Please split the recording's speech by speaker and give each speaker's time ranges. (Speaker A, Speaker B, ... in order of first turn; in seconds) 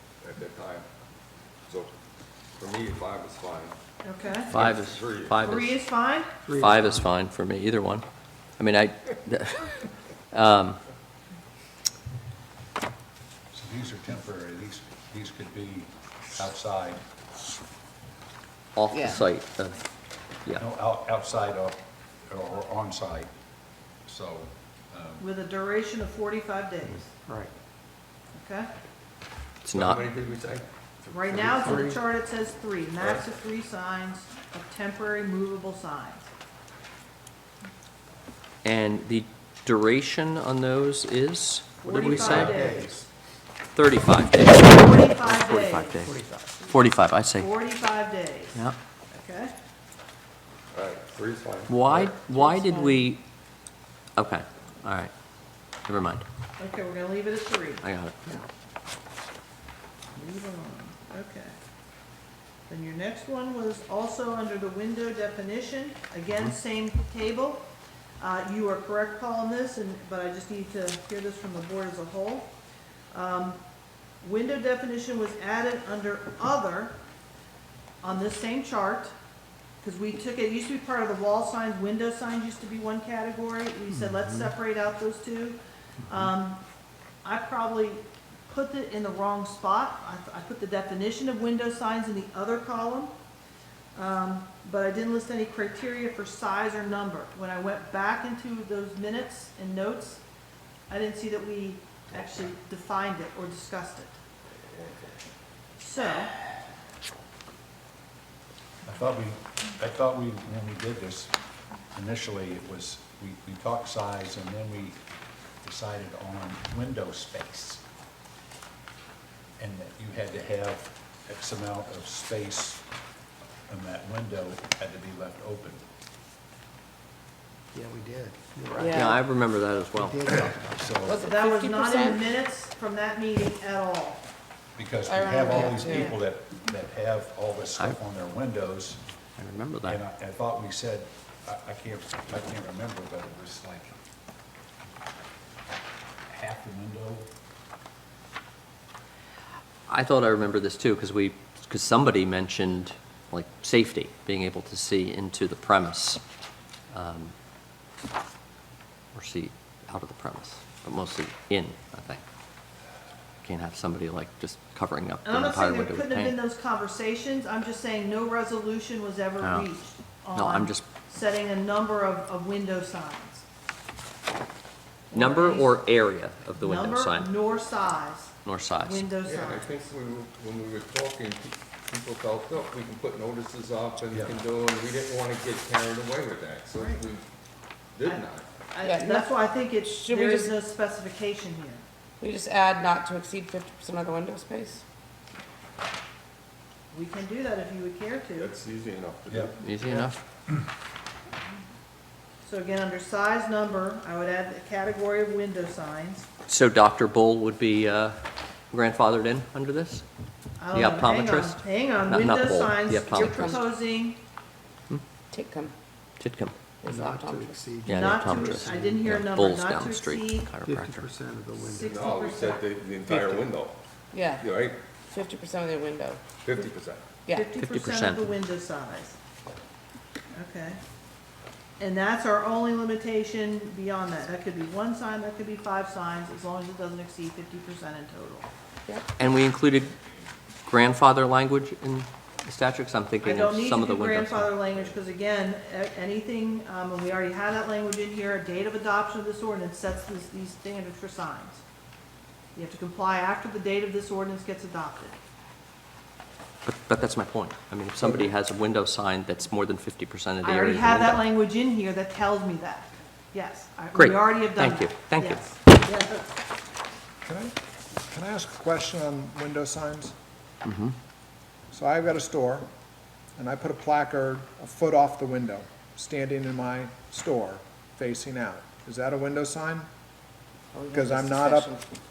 Speaker A: 0.2-0.9, 2.6-3.8, 4.5-5.4, 29.7-32.0, 33.0-33.3, 50.7-52.1, 179.2-187.2, 187.9-188.5, 198.4-200.0, 221.8-223.8, 224.4-224.8, 226.4-227.1
Speaker B: 4.0-4.5, 5.4-6.3, 25.2-27.1, 28.3-28.7, 31.1-36.3, 41.8-43.1, 44.6-46.0, 47.4-49.5, 56.6-57.9, 60.1-61.5, 62.7-67.7, 68.2-72.5, 73.1-73.6, 74.2-77.0, 78.0-79.1, 79.8-86.6, 87.2-93.1, 94.0-100.2, 100.9-104.2, 105.8-106.3, 131.1-134.2, 165.2-173.4, 175.1-175.8, 176.6-179.7, 188.7-191.8, 196.9-198.5, 202.4-206.3, 210.6-214.2, 217.9-220.5, 221.6-222.6, 227.3-229.2, 230.3-230.8, 231.8-238.5, 243.2-251.6, 252.6-255.2, 260.4-266.3
Speaker C: 4.5-5.8, 6.5-8.1, 8.6-10.8, 18.8-19.9, 29.6-30.1, 38.6-42.7, 43.7-47.5, 51.7-53.2, 54.2-55.1, 55.9-56.2, 57.8-58.4, 128.9-130.5, 139.4-140.0, 149.9-156.2, 156.9-157.3, 159.1-162.2, 163.4-166.4, 169.4-169.7, 170.3-170.9, 175.1-177.3, 178.4-179.1, 199.6-200.2, 206.5-208.2, 208.7-210.0, 210.7-213.6, 216.2-216.6, 217.8-221.1, 227.6-228.3, 239.2-239.9, 240.7-244.7, 256.6-261.3, 263.9-265.4, 270.6-270.9
Speaker D: 6.5-7.0, 31.6-32.0, 42.1-42.9, 46.0-46.7, 127.7-129.2, 129.9-130.6, 216.8-219.1, 220.6-222.0, 223.1-223.5
Speaker E: 13.5-17.0, 20.6-23.3, 24.1-25.2, 108.8-111.3, 111.9-115.0, 115.6-117.8, 119.6-122.8, 123.7-125.8, 130.5-131.2, 134.8-139.0, 139.8-144.0, 146.3-147.3
Speaker F: 18.9-19.2, 52.3-53.1, 128.8-129.2, 131.0-132.3, 135.1-136.2, 188.8-190.6, 192.2-194.8, 213.0-213.7, 215.3-215.7, 216.8-217.7, 224.1-224.5, 225.1-226.2, 227.3-227.5, 280.7-281.8
Speaker G: 267.2-267.6, 268.1-270.1, 271.7-272.7, 273.4-279.9, 280.9-281.7